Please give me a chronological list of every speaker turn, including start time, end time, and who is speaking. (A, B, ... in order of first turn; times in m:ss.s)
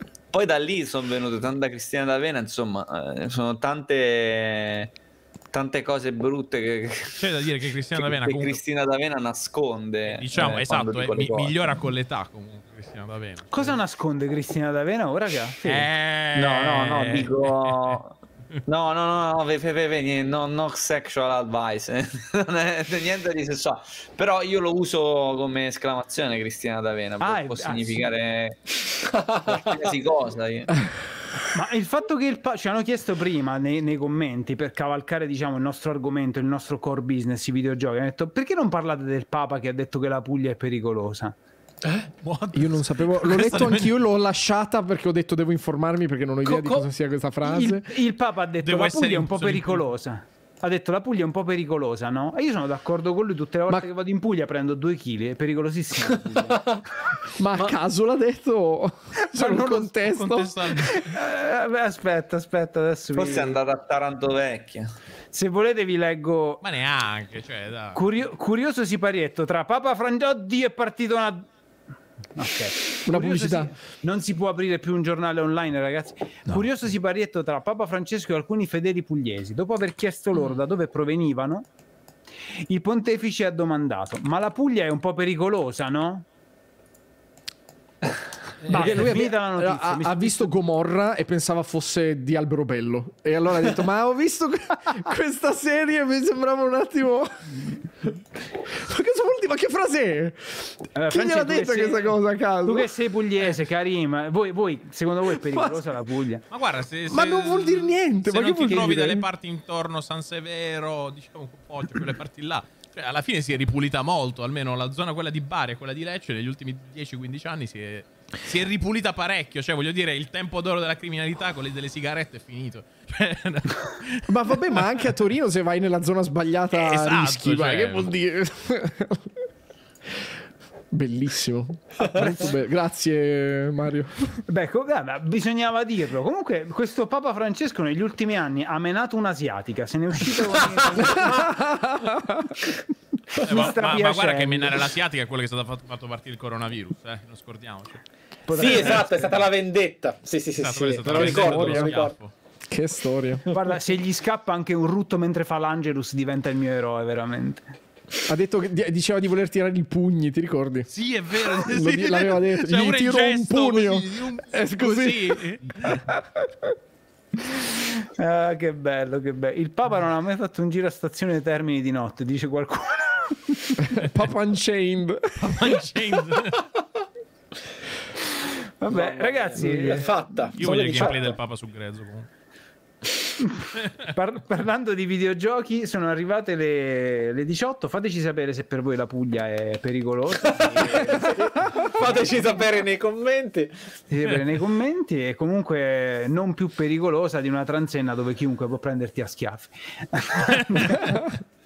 0:00.3-0:04.9 A
0:05.5-0:07.3 A
0:07.2-0:08.6 B
0:08.0-0:11.6 A
0:10.1-0:13.8 B
0:13.5-0:15.9 C
0:15.6-0:18.0 B
0:16.4-0:28.6 A
0:27.2-0:28.1 C
0:29.0-0:30.0 D
0:29.5-0:30.7 A
0:31.5-0:41.4 C
0:41.8-0:42.1 D
0:42.2-0:43.9 B
0:42.5-0:48.0 E
0:46.4-0:46.8 D
0:47.4-0:56.6 C
0:48.6-0:49.8 B
0:56.4-0:56.8 D
0:57.4-1:00.7 E
0:59.2-0:59.9 C
1:00.0-1:01.0 B
1:00.8-1:03.6 C
1:03.2-1:04.9 A
1:05.3-1:06.6 C
1:06.6-1:08.0 B
1:07.9-1:11.5 C
1:12.4-1:21.7 C
1:13.0-1:13.7 E
1:22.7-1:26.3 C
1:28.7-1:30.5 C
1:28.7-1:37.5 E
1:38.7-1:42.9 E
1:41.0-1:46.4 C
1:45.5-1:45.8 E
1:46.5-2:04.9 B
1:47.1-1:49.2 E
1:48.7-1:49.0 C
2:04.3-2:09.4 E
2:06.7-2:08.1 B
2:10.9-2:14.4 E
2:12.0-2:12.5 D
2:14.5-2:21.5 C
2:21.0-2:21.4 D
2:21.0-2:22.6 E
2:23.3-2:24.9 C
2:23.4-2:28.0 B
2:28.5-2:29.4 C
2:28.5-2:32.1 D
2:30.6-2:32.3 B
2:31.1-2:31.9 E
2:31.2-2:31.8 C
2:32.7-2:33.5 E
2:33.5-2:37.7 C
2:38.3-2:40.9 E
2:40.9-2:46.1 B
2:41.4-2:46.7 E
2:47.8-2:53.8 C
2:53.8-2:55.7 E
2:55.4-2:56.7 B
2:58.8-3:00.2 C
2:58.9-3:01.4 D
3:00.6-3:02.3 B
3:03.8-3:04.1 B
3:04.1-3:11.9 C
3:10.4-3:13.8 D
3:14.1-3:21.2 C